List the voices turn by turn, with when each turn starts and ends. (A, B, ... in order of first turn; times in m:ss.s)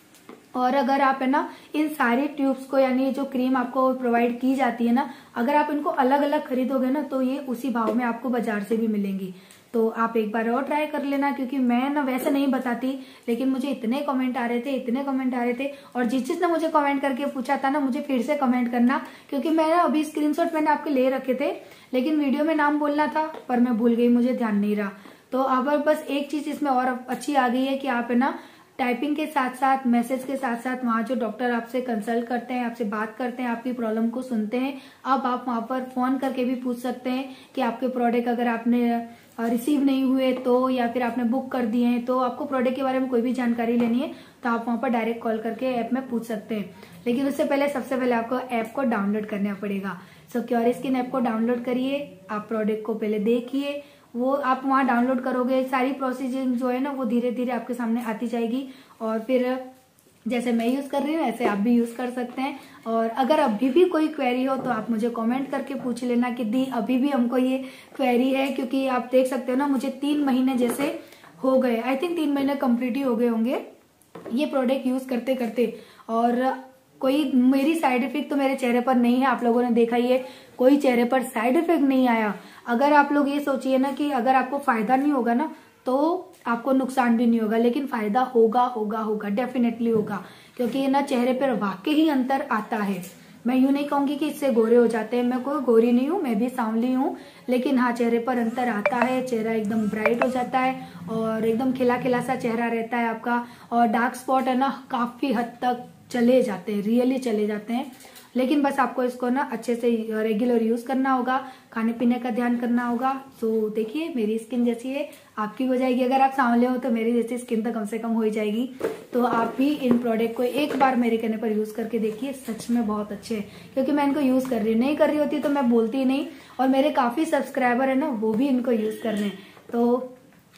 0:00.5-0:59.6 A
1:00.2-1:13.6 A
1:14.3-2:10.1 A